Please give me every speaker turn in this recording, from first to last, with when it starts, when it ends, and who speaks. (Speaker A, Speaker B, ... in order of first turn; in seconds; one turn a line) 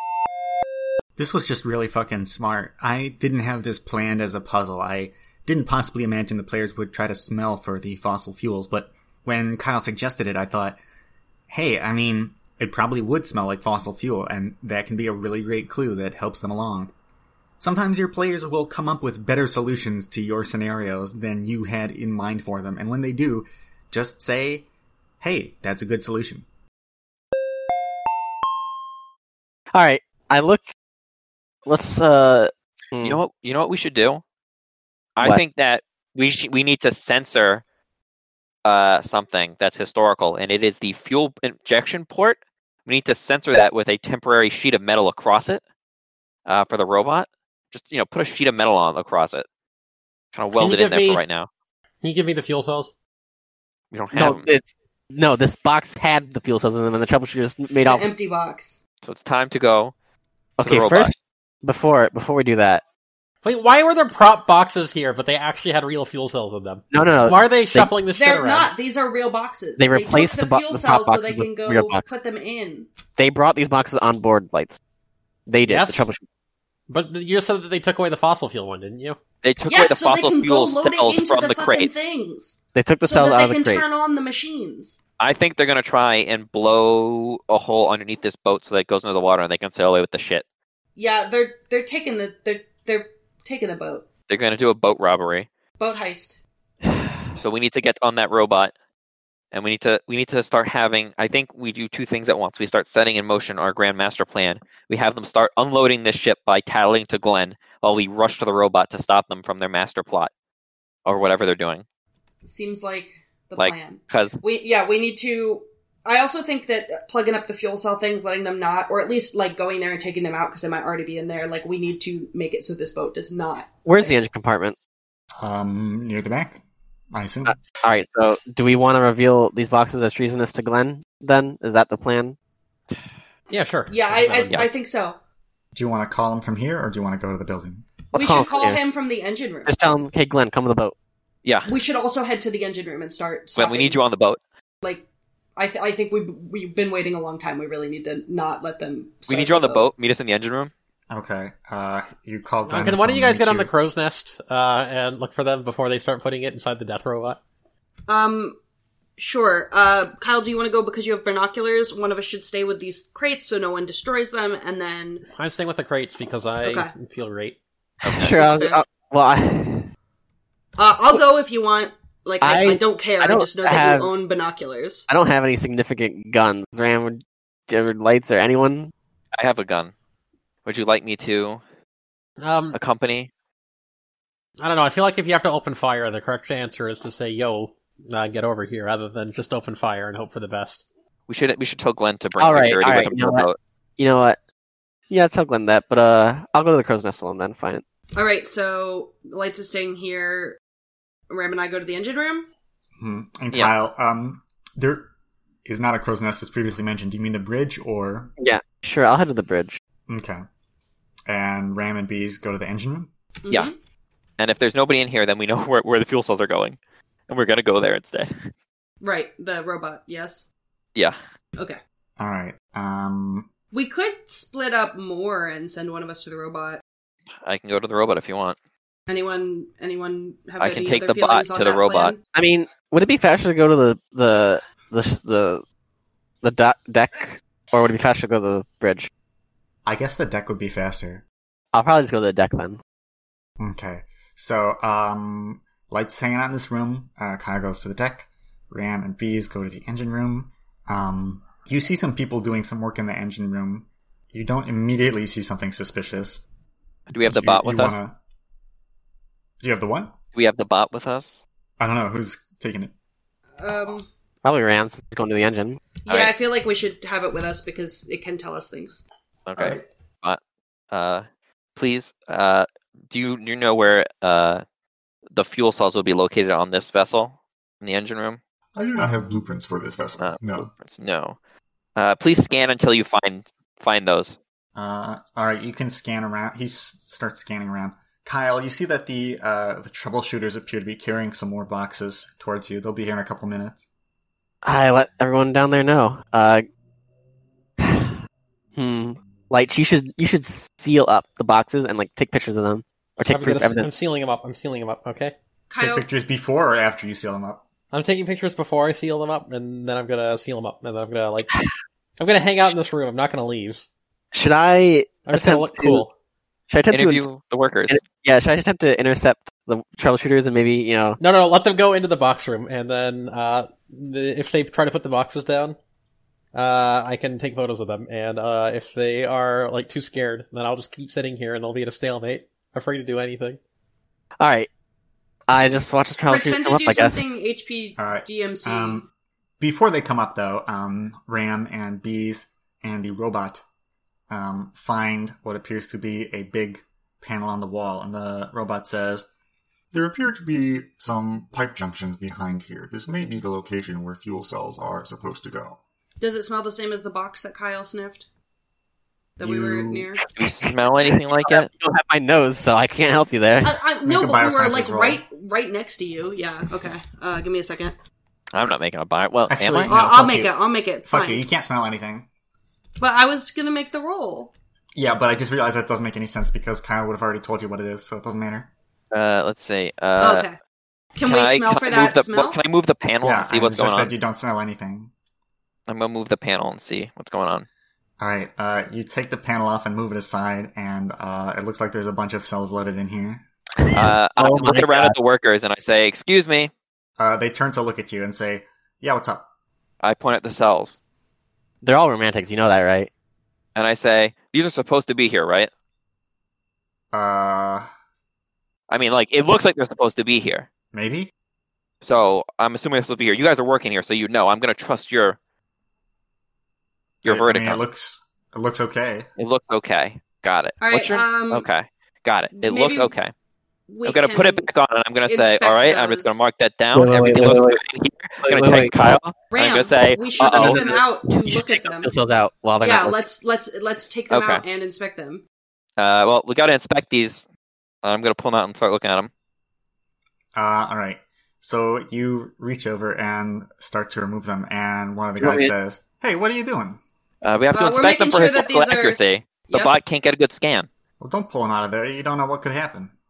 Speaker A: 1.2-10.8
Speaker A: 11.5-16.9
Speaker A: 17.6-24.7
Speaker A: 25.2-26.4
Speaker B: 29.7-30.7
Speaker B: 31.7-33.2
Speaker C: 33.0-34.2
Speaker C: 35.2-37.6
Speaker C: 38.6-45.6
Speaker C: 46.5-49.5
Speaker C: 50.3-51.5
Speaker D: 50.6-51.2
Speaker D: 52.0-52.9
Speaker C: 53.9-54.5
Speaker B: 54.1-58.1
Speaker E: 57.9-58.8
Speaker C: 59.0-59.9
Speaker B: 60.6-62.8
Speaker C: 60.6-61.1
Speaker D: 63.4-68.7
Speaker B: 66.9-67.9
Speaker E: 68.1-72.9
Speaker B: 69.8-72.1
Speaker B: 73.2-74.8
Speaker B: 75.5-76.2
Speaker D: 75.7-76.1
Speaker D: 76.9-79.2
Speaker C: 79.4-81.9
Speaker E: 79.7-85.0
Speaker B: 82.8-83.8
Speaker C: 85.2-90.5
Speaker E: 91.0-94.0
Speaker C: 94.3-95.5
Speaker E: 95.8-96.4
Speaker C: 97.3-98.7
Speaker C: 99.5-110.3
Speaker C: 111.1-111.8
Speaker E: 112.5-124.1
Speaker C: 113.6-114.4
Speaker B: 123.9-124.8
Speaker A: 125.4-127.5
Speaker B: 127.5-132.4
Speaker D: 133.5-134.6
Speaker E: 133.9-135.2
Speaker C: 134.4-134.7
Speaker A: 135.8-137.9
Speaker B: 138.1-138.8
Speaker E: 138.1-139.8
Speaker B: 139.7-140.9
Speaker C: 141.4-141.7
Speaker E: 141.7-144.0
Speaker C: 143.6-144.4
Speaker E: 145.6-149.9
Speaker C: 149.3-150.7
Speaker A: 151.1-153.7
Speaker D: 152.7-157.4
Speaker E: 158.1-158.6
Speaker E: 159.2-165.3
Speaker D: 165.3-167.6
Speaker E: 166.6-166.9
Speaker B: 168.0-169.9
Speaker E: 168.1-168.8
Speaker E: 170.8-175.1
Speaker B: 172.4-174.1
Speaker B: 175.1-178.9
Speaker C: 179.3-179.9
Speaker C: 180.7-181.6
Speaker D: 182.4-182.8
Speaker C: 182.7-183.3
Speaker D: 184.6-190.8
Speaker C: 191.3-193.6
Speaker B: 192.4-194.4
Speaker B: 195.1-197.8
Speaker E: 198.2-200.6
Speaker E: 201.3-202.5
Speaker A: 203.0-205.1
Speaker A: 205.7-208.3
Speaker B: 208.4-209.8
Speaker A: 210.1-210.4
Speaker A: 211.3-213.1
Speaker E: 213.4-213.8
Speaker C: 214.4-216.8
Speaker C: 217.3-218.5
Speaker E: 219.0-220.5
Speaker A: 222.2-223.5
Speaker E: 223.7-226.8
Speaker C: 227.4-228.6
Speaker E: 229.1-232.2
Speaker C: 230.6-232.2
Speaker B: 232.3-235.6
Speaker B: 236.4-239.1
Speaker A: 239.8-241.2
Speaker B: 241.7-242.8
Speaker A: 243.6-256.4
Speaker C: 257.1-258.0
Speaker A: 257.2-258.1
Speaker A: 259.6-260.1
Speaker C: 260.3-261.4
Speaker A: 261.8-262.9
Speaker E: 263.6-264.1
Speaker B: 264.4-265.8
Speaker E: 266.0-269.0
Speaker C: 266.1-266.4
Speaker C: 269.5-270.4
Speaker C: 270.9-271.2
Speaker C: 271.8-274.6
Speaker C: 275.3-278.4
Speaker F: 278.8-280.7
Speaker C: 280.2-281.4
Speaker C: 282.0-284.4
Speaker A: 284.8-293.8
Speaker B: 294.6-296.7
Speaker B: 297.8-298.2
Speaker B: 298.8-303.9
Speaker D: 303.3-305.3
Speaker E: 305.7-306.1
Speaker A: 305.8-307.6
Speaker D: 307.9-311.5
Speaker D: 312.2-313.8
Speaker B: 314.3-316.0
Speaker D: 315.3-316.1
Speaker B: 316.7-317.2
Speaker C: 316.9-318.0
Speaker B: 317.9-321.2
Speaker D: 321.2-325.8
Speaker D: 326.5-333.6
Speaker B: 334.4-334.7
Speaker B: 335.5-337.4
Speaker E: 336.3-339.1
Speaker A: 338.0-339.1
Speaker A: 339.6-343.6
Speaker A: 344.3-349.3
Speaker F: 349.9-355.8
Speaker E: 356.2-358.2
Speaker E: 359.4-360.2
Speaker A: 359.4-360.1
Speaker C: 360.3-361.7
Speaker B: 360.4-363.7
Speaker E: 363.6-367.9
Speaker A: 364.1-365.2
Speaker C: 368.5-369.9
Speaker A: 369.5-370.5
Speaker E: 369.9-371.4
Speaker A: 371.1-372.3
Speaker E: 373.0-374.5
Speaker A: 375.0-378.7
Speaker C: 379.1-380.5
Speaker E: 380.2-380.6
Speaker E: 381.2-382.6
Speaker C: 381.2-384.1
Speaker A: 383.2-385.1
Speaker C: 385.9-387.7
Speaker A: 388.2-393.4
Speaker B: 393.8-395.1
Speaker C: 393.9-396.7
Speaker A: 397.2-399.5
Speaker C: 400.0-401.0
Speaker B: 401.8-403.1
Speaker C: 403.8-405.7
Speaker A: 407.1-407.9
Speaker C: 408.9-410.7
Speaker A: 410.9-411.3
Speaker C: 412.0-415.4
Speaker C: 417.2-417.8
Speaker A: 417.2-419.3
Speaker C: 419.4-423.3
Speaker E: 420.8-421.7
Speaker E: 422.5-423.1
Speaker E: 423.9-424.7
Speaker C: 424.1-431.0
Speaker E: 425.3-426.4
Speaker B: 426.9-427.8
Speaker B: 428.4-428.9
Speaker E: 429.5-432.1
Speaker B: 430.4-433.2
Speaker E: 432.8-435.4
Speaker C: 434.3-434.6
Speaker C: 436.0-437.4
Speaker C: 438.0-439.3
Speaker A: 440.6-447.0
Speaker B: 445.4-445.7
Speaker C: 447.4-450.9
Speaker E: 447.7-449.9
Speaker A: 451.2-453.1